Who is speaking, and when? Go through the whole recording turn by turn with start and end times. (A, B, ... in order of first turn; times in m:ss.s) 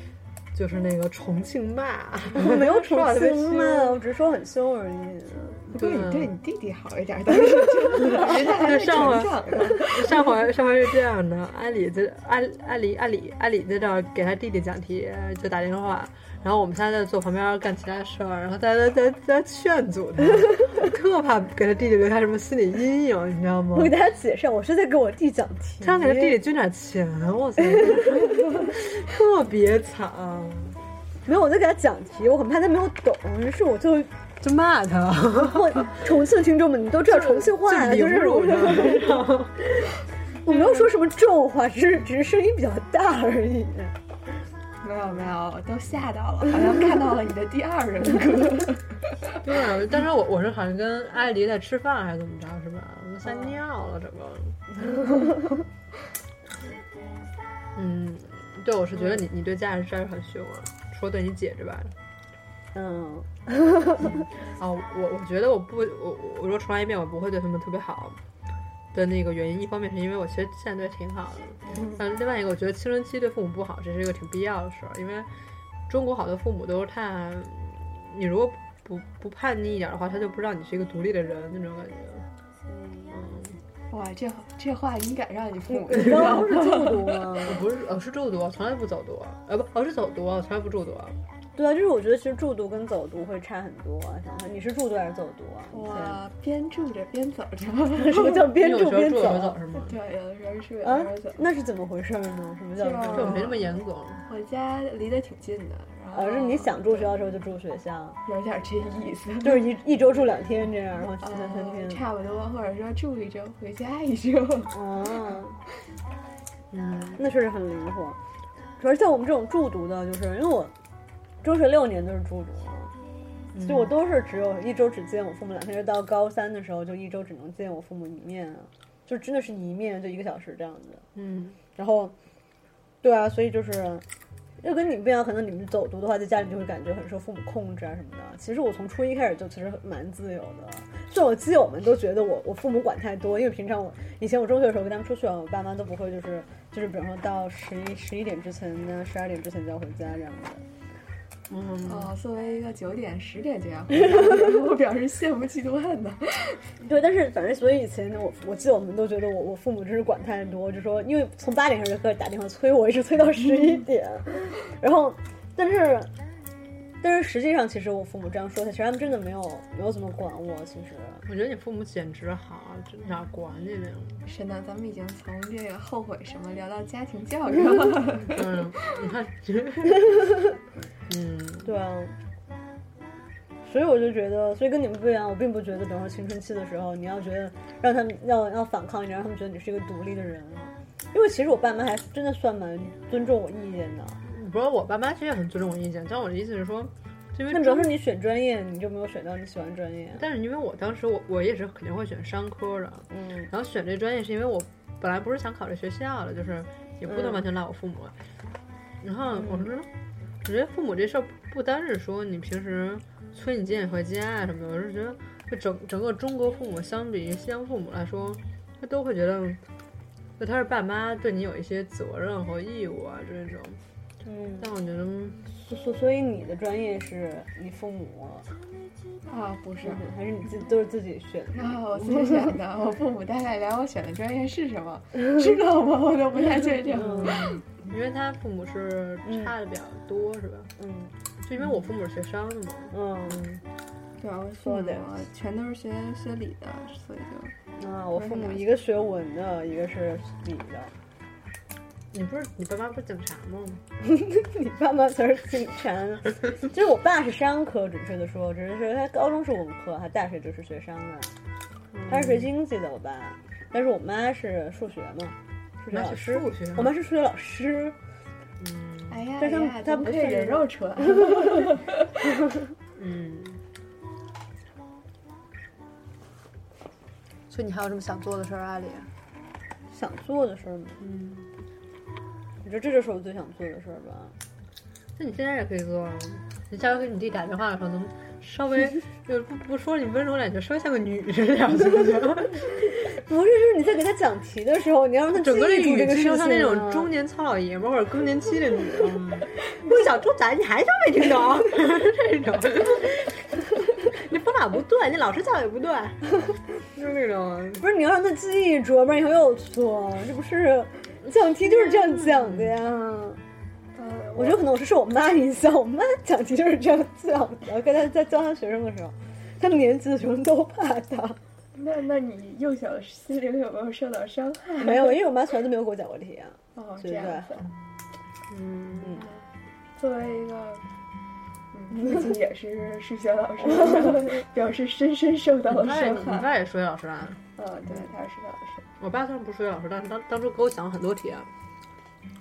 0:00.5-0:04.0 A
0:02.3-0:05.7 B
0:05.7-0:10.4 C
0:05.8-0:06.3 A
0:08.1-0:23.9 A
0:23.7-0:26.4 B
0:25.8-0:30.8 A
0:31.3-0:34.1 B
0:34.4-0:36.0 A
0:35.4-0:39.2 B
0:37.1-0:39.8 A
0:40.4-0:44.0 B
0:44.8-0:49.0 C
0:49.4-0:54.6 A
0:53.2-0:53.6 B
0:57.8-1:01.9 A
0:59.0-0:59.2 B
1:02.7-1:04.2 B
1:04.0-1:08.2 A
1:08.9-1:15.3 A
1:15.9-1:22.2 A
1:22.7-1:23.2 B
1:23.1-1:23.6 A
1:23.9-1:27.4 C
1:25.7-1:27.6 B
1:27.4-1:31.2 A
1:31.6-1:36.2 B
1:35.7-1:38.5 C
1:38.0-1:39.6 B
1:38.6-1:39.9 A
1:39.8-1:41.5 C
1:40.8-1:43.5 B
1:42.8-1:43.6 C
1:43.1-1:44.2 A
1:44.3-1:47.1 C
1:46.1-1:48.2 B
1:48.2-1:49.7 C
1:49.4-1:52.0 B
1:51.2-1:54.8 C
1:54.7-1:55.6 B
1:56.7-1:57.2 A
1:57.2-1:58.2 B
1:58.8-2:00.7 B
2:01.4-2:02.9 B
2:03.5-2:03.9 A
2:03.6-2:11.0 B
2:11.2-2:11.6 A
2:11.8-2:12.1 B
2:13.0-2:14.0 B
2:14.6-2:30.6 B
2:31.5-2:32.1 A
2:31.8-2:36.6 C
2:36.8-2:46.1 B
2:47.0-2:51.2 B
2:51.3-2:54.2 A
2:54.2-2:58.8 C
2:58.2-3:00.4 A
3:01.1-3:01.7 A
3:01.6-3:02.2 B
3:03.6-3:14.2 B
3:14.3-3:17.9 A
3:17.5-3:20.2 B
3:20.2-3:28.2 A
3:23.1-3:23.5 B
3:27.1-3:27.4 B
3:29.0-3:29.9 A
3:29.4-3:29.7 B
3:30.4-3:39.6 A
3:40.4-3:43.8 A
3:44.2-3:44.7 B
3:44.6-3:45.5 A
3:45.6-3:48.5 B
3:49.3-3:50.1 C
3:49.8-3:51.8 B
3:51.5-3:57.6 C
3:57.0-3:57.4 B
3:57.0-4:00.7 A
3:59.3-3:59.5 B
4:00.8-4:01.1 B
4:01.4-4:03.6 A
4:02.9-4:03.4 B
4:04.2-4:07.5 C
4:04.6-4:05.0 B
4:07.8-4:10.9 B
4:08.2-4:08.7 C
4:12.1-4:13.8 A
4:14.0-4:21.3 B
4:21.9-4:22.5 A
4:22.1-4:28.0 B
4:25.9-4:26.9 A
4:28.6-4:29.2 A
4:29.1-4:32.1 C
4:29.4-4:30.6 B
4:33.0-4:33.6 A
4:37.5-4:39.1 A
4:39.9-4:41.0 B
4:41.0-4:41.5 A
4:42.6-4:44.3 B
4:45.2-4:52.8 A
4:53.0-4:57.1 B
4:55.3-5:06.3 A
5:06.9-5:07.9 A
5:07.8-5:13.4 B
5:11.8-5:12.8 A
5:14.0-5:14.7 C
5:14.4-5:21.4 B
5:21.7-5:25.2 C
5:24.8-5:27.5 B
5:26.8-5:27.7 C
5:28.5-5:29.2 A
5:30.0-5:30.8 C
5:31.7-5:36.5 C
5:35.7-5:37.4 A
5:37.6-5:38.9 C
5:39.0-5:41.5 A